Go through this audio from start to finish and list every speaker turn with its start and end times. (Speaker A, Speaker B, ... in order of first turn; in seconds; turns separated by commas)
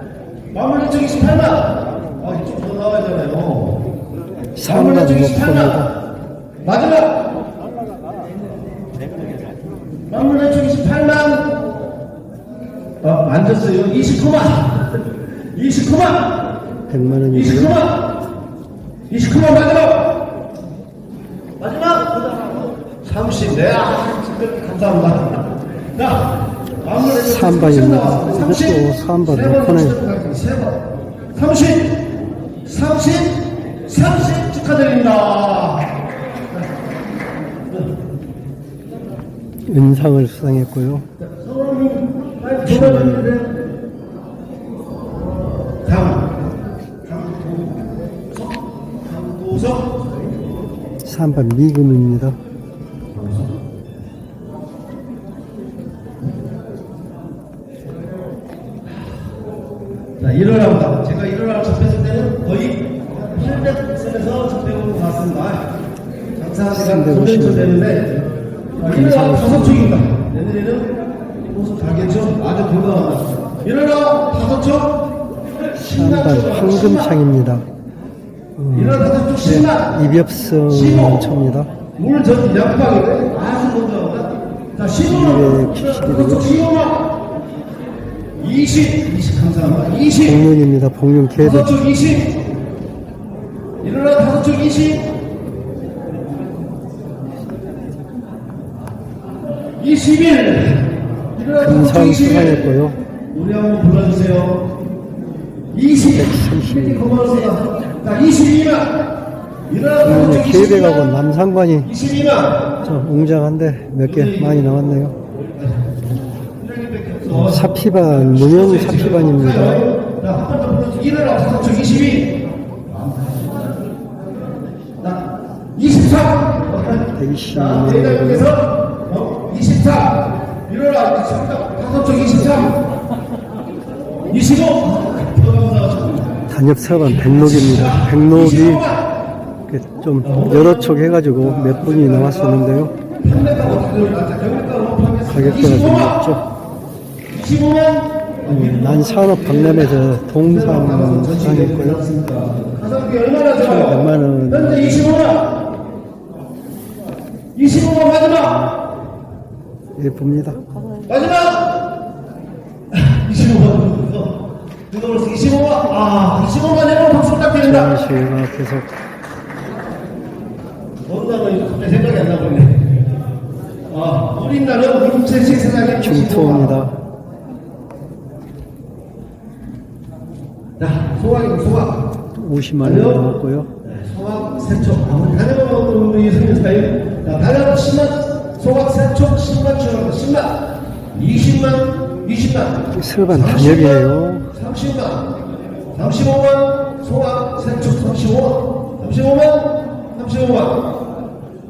Speaker A: 0.5-3.8, Speaker B: 4.5-5.9, Speaker A: 4.6-5.9, Speaker A: 6.6-7.2, Speaker A: 10.1-11.6, Speaker A: 13.0-16.4, Speaker B: 16.9-17.8, Speaker A: 17.3-18.1, Speaker A: 19.1-20.2, Speaker A: 21.6-30.8, Speaker B: 27.0-30.0, Speaker A: 31.4-32.0, Speaker A: 32.6-35.9, Speaker B: 39.7-41.0, Speaker A: 41.2-43.6, Speaker B: 42.6-43.4, Speaker A: 45.8-46.3, Speaker A: 47.0-47.8, Speaker A: 48.3-50.0, Speaker B: 51.0-52.4, Speaker A: 53.1-53.5, Speaker A: 60.2-65.7, Speaker A: 66.4-68.1, Speaker B: 66.7-68.0, Speaker A: 68.8-70.9, Speaker B: 68.8-70.0, Speaker A: 71.5-75.0, Speaker A: 75.7-77.2, Speaker B: 76.0-77.7, Speaker B: 78.6-81.7, Speaker A: 78.7-79.9, Speaker A: 80.7-81.3, Speaker A: 82.0-87.1, Speaker B: 85.1-86.5, Speaker A: 88.4-90.4, Speaker B: 90.2-91.8, Speaker A: 91.4-92.3, Speaker A: 93.8-95.1, Speaker A: 99.8-102.7, Speaker B: 101.6-103.0, Speaker A: 103.3-104.6, Speaker A: 105.7-109.0, Speaker B: 106.1-107.1, Speaker A: 109.7-111.1, Speaker B: 110.0-111.9, Speaker A: 111.8-112.7, Speaker B: 112.8-115.1, Speaker A: 114.0-114.6, Speaker A: 115.5-116.0, Speaker A: 116.6-122.4, Speaker B: 117.3-119.9, Speaker A: 122.9-123.8, Speaker A: 125.0-132.8, Speaker B: 127.1-128.5, Speaker A: 134.3-136.3, Speaker B: 136.5-138.9, Speaker A: 137.1-139.1, Speaker B: 139.7-142.9, Speaker A: 140.2-142.7, Speaker A: 143.2-146.2, Speaker B: 145.3-146.5, Speaker A: 147.3-155.6, Speaker B: 148.5-152.0, Speaker B: 153.6-155.1, Speaker A: 157.5-158.6, Speaker B: 158.4-158.8, Speaker B: 160.0-160.6, Speaker A: 161.0-161.7, Speaker A: 162.9-168.0, Speaker B: 167.6-168.9, Speaker A: 171.1-172.9, Speaker A: 173.9-176.8, Speaker B: 176.0-176.9, Speaker A: 180.8-182.1, Speaker B: 182.4-183.7, Speaker A: 182.8-183.3, Speaker A: 183.8-195.3, Speaker B: 192.9-194.5, Speaker A: 195.9-200.8